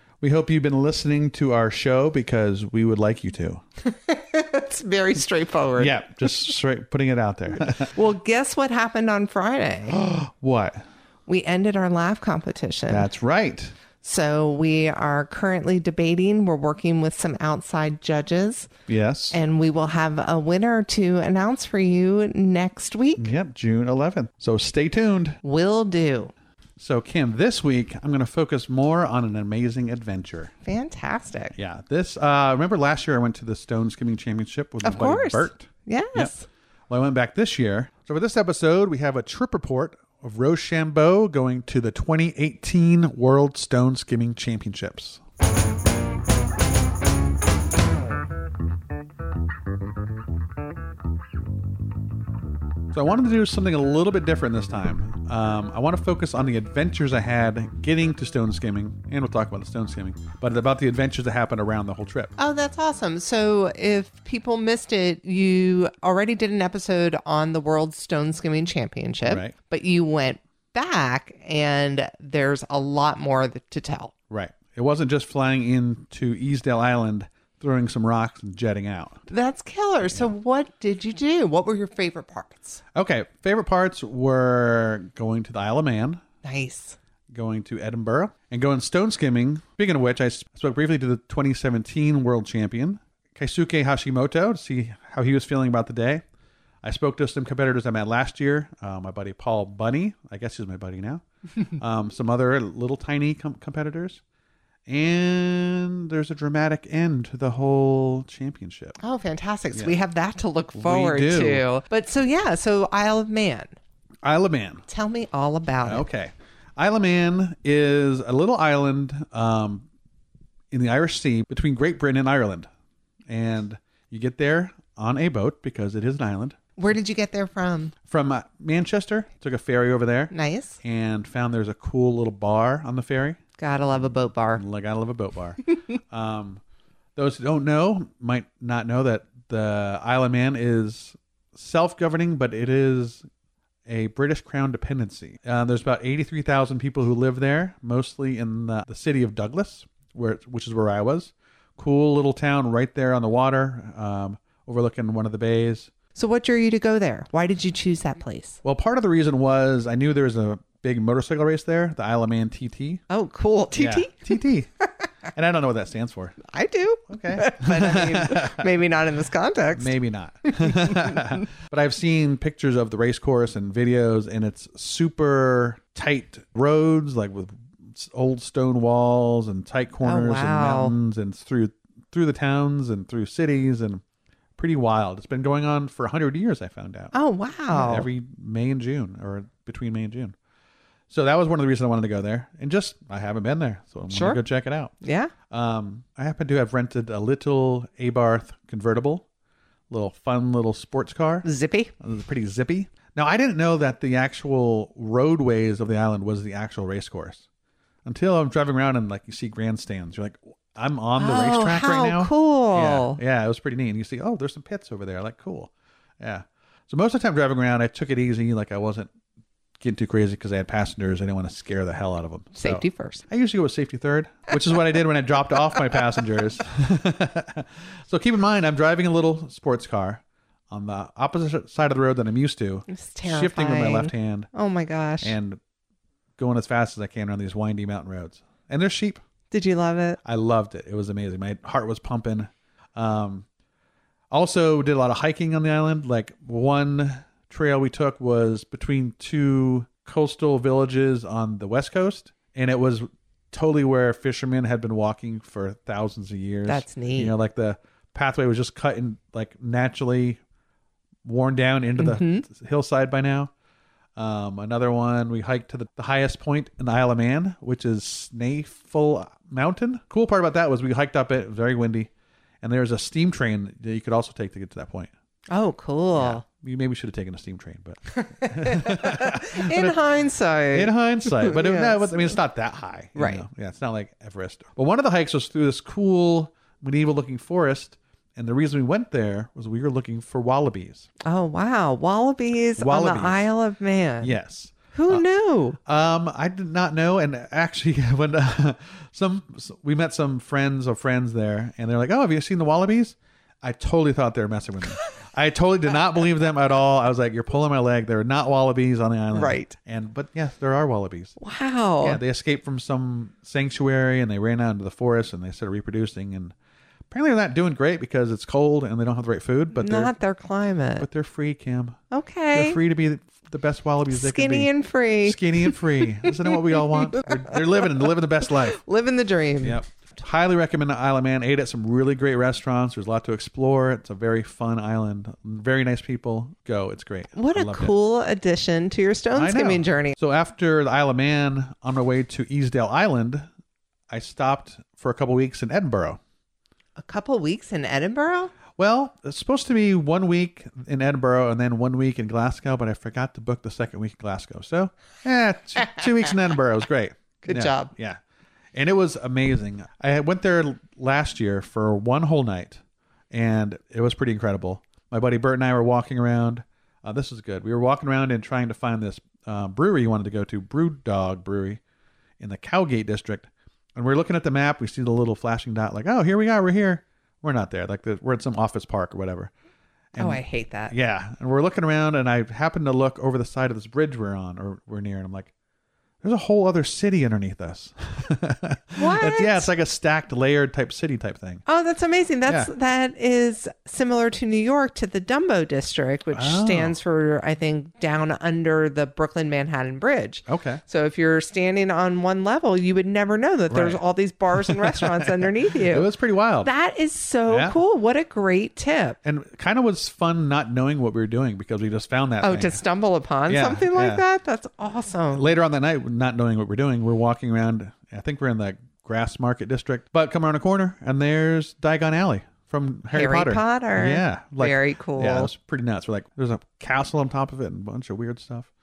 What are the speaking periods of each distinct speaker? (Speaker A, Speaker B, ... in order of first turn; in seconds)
Speaker A: 0.2-3.6, 5.8-7.9, 9.9-10.8, 12.9-13.7, 18.9-19.4, 23.1-25.4, 26.8-30.5, 31.6-36.3, 36.9-45.2, 52.9-62.3, 69.2-69.5, 74.3-79.3, 80.0-80.3, 82.9-86.2, 87.3-96.2, 96.8-101.2, 101.8-104.2, 104.9-109.0, 110.8-111.6, 114.2-114.8, 115.8-119.9, 120.7-122.7, 123.3-126.7, 128.1-133.4, 134.5-136.6, 137.2-143.2, 143.9-155.9, 158.6-163.0, 163.7-164.7, 165.3-166.4, 167.1-168.7, 169.7-184.0, 184.6-187.1, 187.7-190.3, 191.1-194.9, 195.5-199.2, 199.9-201.4, 202.0-207.4, 208.0-219.1, 219.8-234.5, 235.2-235.6, 236.4-239.2, 240.2-243.4, 244.3-260.4, 261.2-263.5, 264.1-272.1, 272.6-275.1, 276.1-280.0, 280.7-291.1, 292.8-293.5, 294.2-295.2, 295.8-311.4, 312.0-316.5, 317.1-320.1, 321.0-322.0, 322.5-324.7, 325.2-328.8, 329.6-337.9, 339.3-343.4, 344.1-346.2, 348.8-358.2, 358.7-371.8, 372.4-379.5, 380.1-385.5, 386.2-391.6, 396.3-397.0, 400.5-400.8, 403.7-404.0, 404.5-406.7, 407.5-407.7, 409.2-412.8, 413.5-414.2, 415.3-428.7
Speaker B: 3.8-6.0, 7.6-10.0, 11.3-13.1, 14.0-18.7, 19.3-23.3, 25.4-26.3, 30.6-31.5, 34.8-36.5, 62.4-74.1, 79.3-82.8, 86.4-87.0, 109.0-113.7, 114.9-116.0, 126.8-127.9, 130.3-130.8, 133.6-134.6, 156.1-158.6, 163.1-164.4, 166.4-171.3, 180.0-180.9, 187.1-188.1, 194.1-194.4, 195.0-195.3, 201.4-201.9, 211.2-213.2, 222.6-223.2, 232.9-235.3, 239.5-240.2, 256.7-257.3, 262.0-262.4, 275.5-276.4, 278.1-282.4, 283.1-283.4, 291.2-294.3, 294.9-295.8, 309.3-309.8, 311.4-312.2, 319.8-321.1, 322.1-322.8, 324.1-328.0, 328.7-329.8, 337.3-340.1, 347.0-348.5, 357.4-357.9, 380.2-380.9, 389.0-389.7, 391.7-406.1, 406.6-409.2, 412.4-415.4, 423.1-425.5